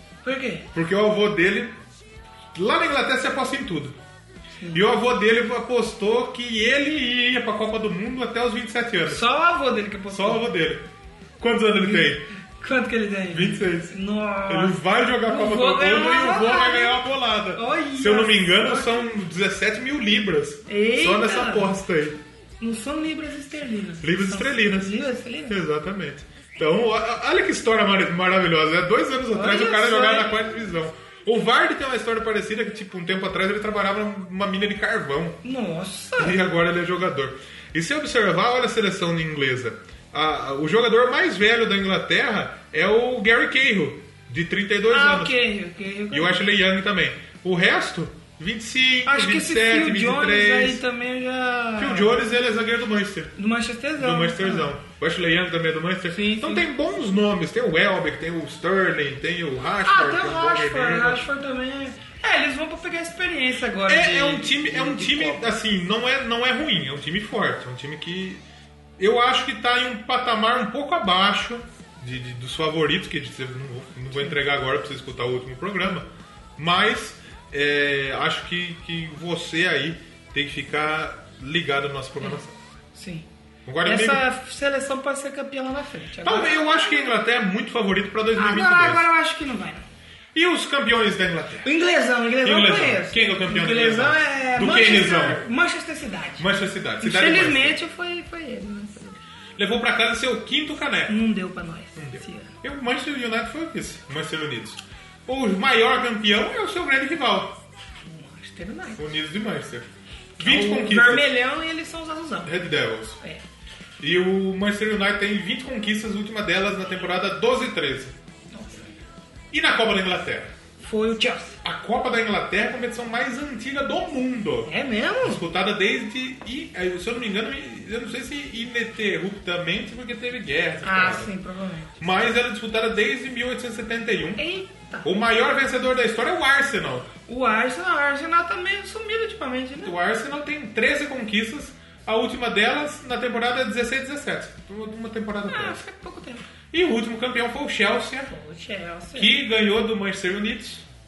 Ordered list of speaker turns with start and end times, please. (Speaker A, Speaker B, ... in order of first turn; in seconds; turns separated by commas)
Speaker A: 0.2-0.7, Speaker B: 0.7-1.8, Speaker B: 2.5-4.0, Speaker A: 4.6-4.8, Speaker B: 4.7-9.3, Speaker A: 9.1-10.4, Speaker B: 10.1-10.9, Speaker B: 11.4-12.2, Speaker A: 11.8-12.1, Speaker A: 12.6-19.1, Speaker B: 13.3-13.9, Speaker B: 14.5-22.2, Speaker A: 20.7-21.8, Speaker A: 22.6-25.6, Speaker B: 24.0-35.4, Speaker A: 29.3-30.5, Speaker A: 35.4-36.4, Speaker B: 36.2-45.4, Speaker A: 44.9-46.4, Speaker B: 46.1-50.8, Speaker A: 49.1-52.2, Speaker B: 51.8-53.4, Speaker A: 53.4-54.7, Speaker B: 54.0-61.3, Speaker A: 56.1-56.6, Speaker A: 59.8-65.5, Speaker B: 63.9-68.4, Speaker B: 69.0-82.6, Speaker A: 83.0-83.3, Speaker B: 83.7-84.2, Speaker A: 83.8-87.1, Speaker B: 86.2-89.1, Speaker A: 88.4-89.8, Speaker B: 90.3-91.7, Speaker A: 91.6-96.5, Speaker B: 92.4-95.4, Speaker B: 96.4-97.8, Speaker A: 97.0-99.2, Speaker B: 99.6-101.2, Speaker A: 101.1-102.5, Speaker B: 102.0-107.6, Speaker A: 108.0-109.2, Speaker B: 109.0-109.9, Speaker A: 110.4-112.5, Speaker B: 110.4-111.3, Speaker B: 112.5-113.2, Speaker B: 114.0-118.1, Speaker A: 118.5-118.9, Speaker B: 119.5-120.5, Speaker A: 120.8-121.6, Speaker B: 121.6-124.7, Speaker A: 124.7-125.4, Speaker B: 125.2-131.3, Speaker A: 130.8-132.0, Speaker B: 132.0-134.4, Speaker A: 134.4-135.1, Speaker B: 135.0-137.1, Speaker A: 137.3-139.9, Speaker B: 139.8-145.8, Speaker A: 145.5-146.5, Speaker B: 146.7-148.3, Speaker A: 148.3-149.4, Speaker B: 149.2-150.9